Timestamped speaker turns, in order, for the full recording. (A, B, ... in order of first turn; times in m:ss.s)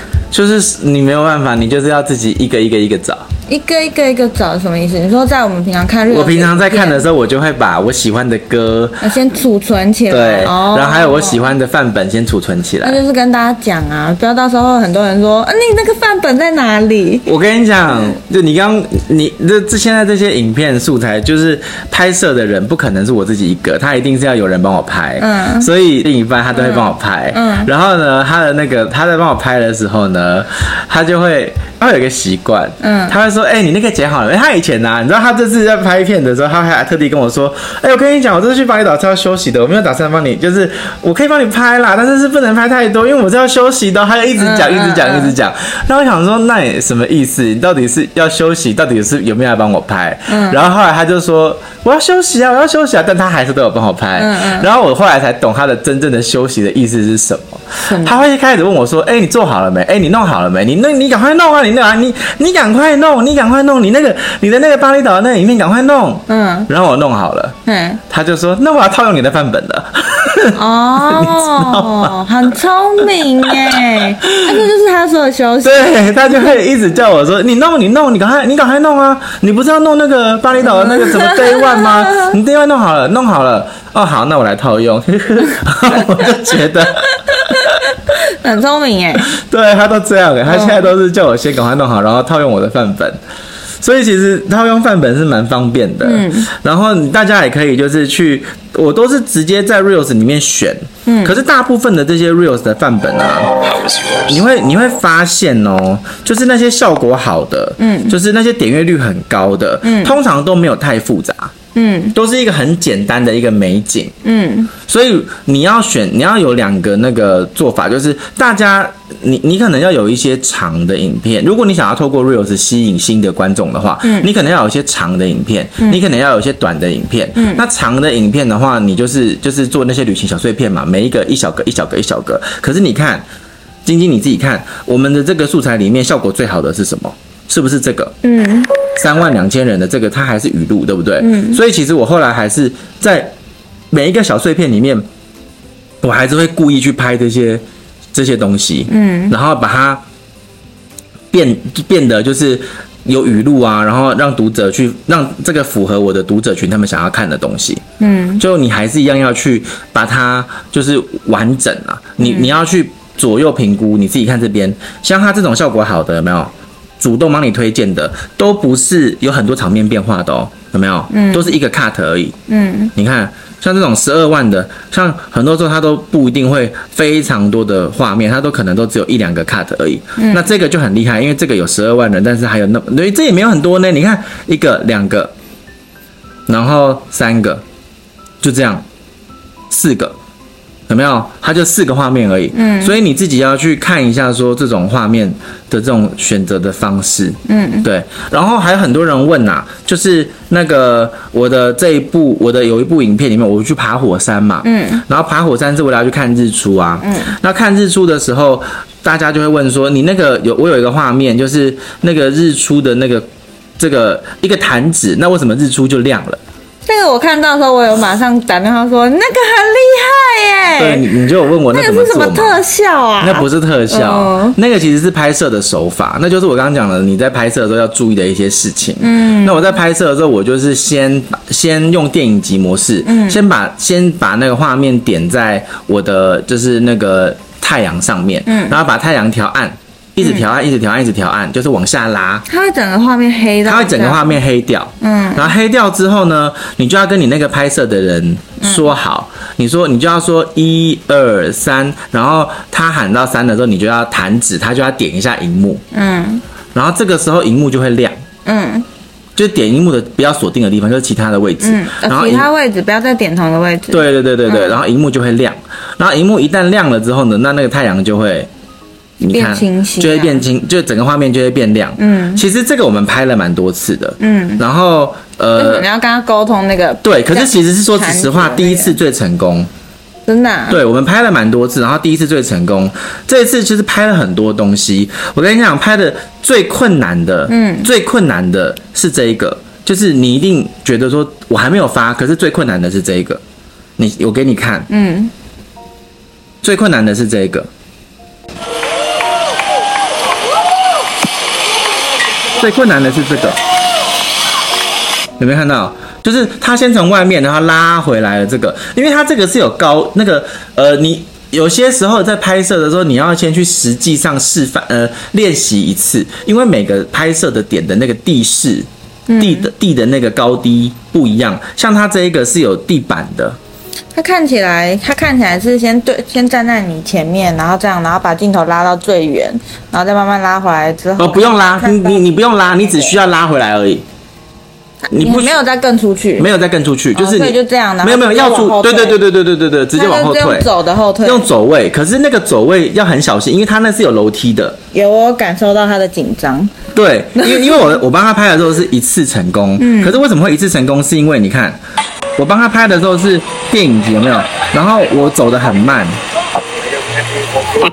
0:00.3-0:03.2 A
0:03.5-0:07.1 B
0:06.1-0:09.1 A
0:09.0-0:11.4 B
0:10.1-0:13.0 A
0:12.8-0:17.3 B
0:17.3-1:07.6 A
0:17.9-0:18.2 B
0:25.2-0:25.7 B
0:26.5-0:27.7 B
0:32.8-0:33.2 B
0:44.4-0:45.4 B
0:50.3-0:50.6 B
0:54.2-0:54.7 B
0:57.8-0:58.2 B
1:06.3-1:06.7 B
1:07.7-1:08.0 B
1:08.1-1:12.2 A
1:10.6-1:16.6 B
1:13.1-1:14.6 A
1:15.6-1:27.8 A
1:20.6-1:22.4 B
1:25.9-1:26.4 B
1:27.2-1:29.3 B
1:29.2-1:33.2 A
1:30.5-1:30.9 B
1:33.8-1:51.5 A
1:36.0-1:36.5 B
1:41.0-1:41.4 B
1:47.8-1:48.2 B
1:49.8-1:50.2 B
1:51.8-1:52.2 B
1:52.1-1:54.2 A
1:54.2-1:54.7 B
1:54.8-2:13.2 A
2:04.0-2:04.3 B
2:07.4-2:07.6 B
2:13.8-2:18.2 A
2:18.2-2:18.8 B
2:19.0-2:23.3 A
2:21.2-2:21.6 B
2:23.9-2:25.0 A
2:26.0-2:27.6 A
2:28.1-2:30.0 A
2:28.9-2:29.4 B
2:31.3-2:37.8 A
2:38.0-2:38.4 B
2:38.4-2:52.4 A
2:42.2-2:42.5 B
2:51.1-2:51.6 B
2:52.5-2:52.9 B
2:53.0-3:05.3 A
3:00.2-3:00.4 B
3:06.5-3:07.6 A
3:08.4-3:08.8 A
3:09.7-3:10.2 A
3:10.9-3:33.3 A
3:12.5-3:13.0 B
3:17.5-3:17.9 B
3:24.6-3:25.0 B
3:27.0-3:27.4 B
3:33.8-3:36.4 A
3:36.9-3:41.1 B
3:40.8-3:42.6 A
3:41.7-3:44.6 B
3:43.2-4:02.5 A
3:49.0-3:49.7 B
3:53.0-3:53.4 B
3:58.5-3:58.8 B
4:00.2-4:00.5 B
4:02.5-4:04.4 B
4:03.7-4:15.8 A
4:05.0-4:05.5 B
4:08.6-4:09.0 B
4:15.9-4:16.4 B
4:16.7-4:18.2 A
4:18.4-4:18.9 B
4:19.4-4:22.5 A
4:21.6-4:24.8 B
4:23.9-4:28.5 A
4:29.2-4:35.9 A
4:29.3-4:30.4 B
4:32.0-4:32.4 B
4:34.2-4:34.6 B
4:35.6-4:39.0 B
4:37.0-4:39.7 A
4:40.3-4:40.8 B
4:40.7-4:53.4 A
4:47.5-4:47.9 B
4:54.0-4:54.9 A
4:54.9-4:55.3 B
4:56.6-4:57.7 A
5:02.6-5:03.6 A
5:05.4-5:18.9 A
5:19.3-5:19.7 B
5:19.4-5:23.6 A
5:24.2-5:32.2 B
5:31.2-5:34.0 A
5:35.1-5:36.5 B
5:35.1-5:35.6 A
5:36.4-5:40.7 A
5:37.2-5:39.2 B
5:40.0-5:41.5 B
5:41.2-5:44.8 A
5:44.9-5:46.8 B
5:46.9-5:51.8 A
5:47.4-5:47.9 B
5:49.8-5:50.2 B
5:52.4-5:56.2 A